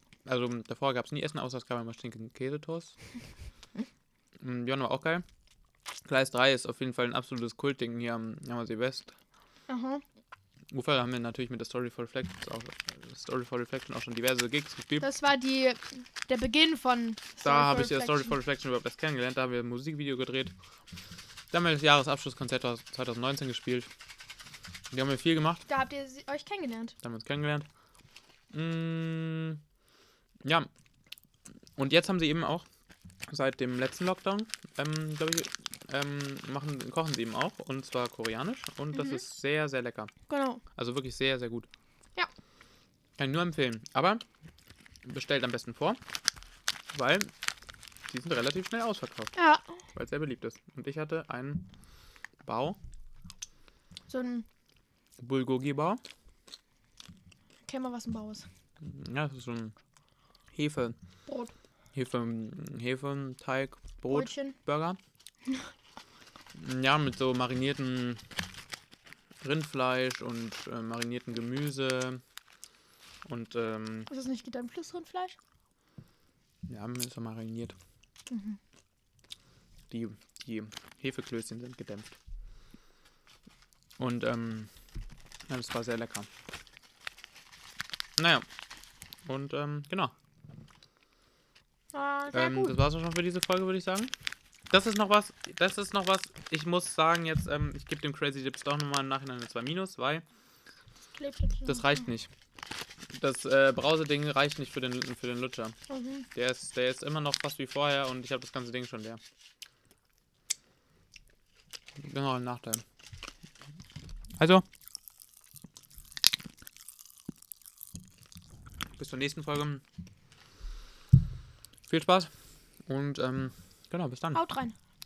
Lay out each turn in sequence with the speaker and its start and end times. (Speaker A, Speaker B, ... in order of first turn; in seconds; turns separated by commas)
Speaker A: 0.3-2.9, Speaker A: 4.4-5.2, Speaker A: 6.0-9.2, Speaker B: 9.7-10.0, Speaker A: 10.7-15.1, Speaker B: 15.0-18.4, Speaker A: 17.4-20.5, Speaker A: 21.5-23.9, Speaker A: 24.9-25.6, Speaker B: 25.7-27.0, Speaker A: 27.0-27.7, Speaker A: 28.5-29.6, Speaker A: 30.4-30.7, Speaker A: 31.8-32.7, Speaker A: 33.3-40.1, Speaker B: 38.9-39.2, Speaker B: 40.3-40.6, Speaker A: 40.8-41.7, Speaker A: 43.2-44.2, Speaker A: 45.0-46.0, Speaker A: 46.9-47.3, Speaker A: 48.1-49.4, Speaker B: 49.4-49.8, Speaker A: 49.9-51.7, Speaker A: 52.4-52.8, Speaker B: 54.1-54.5, Speaker A: 55.2-56.0, Speaker B: 57.7-58.5, Speaker A: 58.8-59.8, Speaker A: 60.5-61.0, Speaker B: 61.3-61.5, Speaker A: 61.9-65.0, Speaker B: 64.1-64.6, Speaker B: 65.5-65.7, Speaker A: 66.5-68.2, Speaker A: 69.4-72.2, Speaker A: 73.2-74.1, Speaker B: 74.1-75.4, Speaker A: 76.7-77.8, Speaker B: 78.3-78.6, Speaker A: 79.9-82.2, Speaker A: 84.0-84.7, Speaker A: 85.5-86.3, Speaker A: 88.2-88.5, Speaker A: 89.2-90.1, Speaker B: 91.9-92.8, Speaker A: 92.3-94.1, Speaker A: 94.7-100.2, Speaker B: 101.2-102.1, Speaker A: 101.7-102.3, Speaker A: 103.1-105.8, Speaker B: 105.9-106.3, Speaker A: 106.3-109.2, Speaker A: 112.0-112.8, Speaker A: 114.4-114.7, Speaker A: 119.0-119.8, Speaker A: 121.9-122.3, Speaker A: 122.8-124.4, Speaker B: 124.3-124.8